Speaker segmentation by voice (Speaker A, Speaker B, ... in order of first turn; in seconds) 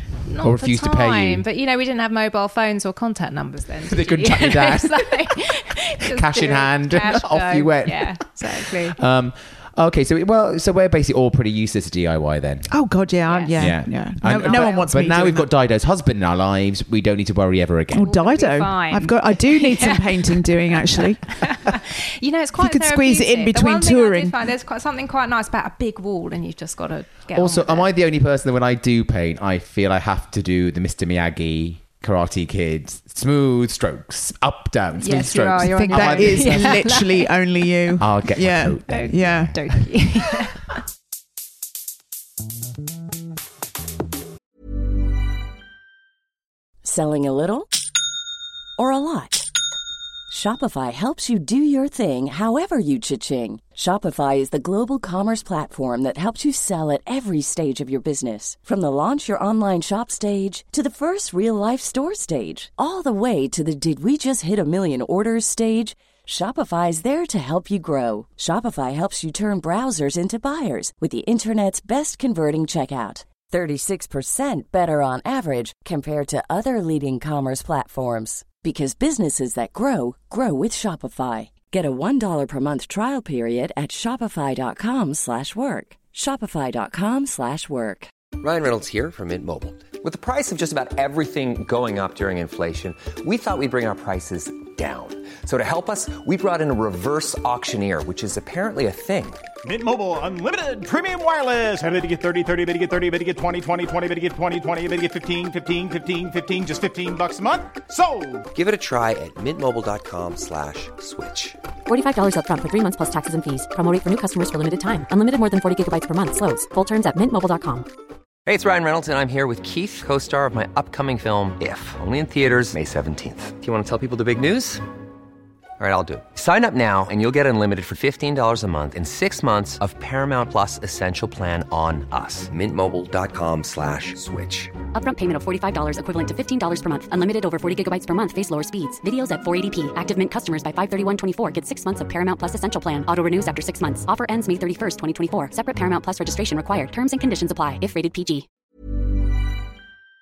Speaker A: 0.2-8.9, 13.3-13.6, 14.2-14.9, 18.0-27.9, 35.0-37.3, 38.9-40.7
Speaker B: 0.4-1.4, 3.9-5.2, 6.1-12.7, 13.6-18.1, 27.3-36.8, 38.0-39.5
Speaker C: 12.7-15.5, 17.9-21.4, 22.6-24.3, 35.7-39.5
Speaker D: 46.8-47.7, 48.8-49.5, 50.3-88.1
Speaker E: 88.4-99.4, 108.5-111.6, 118.5-124.8, 125.8-134.8
Speaker F: 99.6-108.5
Speaker G: 111.8-117.8, 134.9-148.4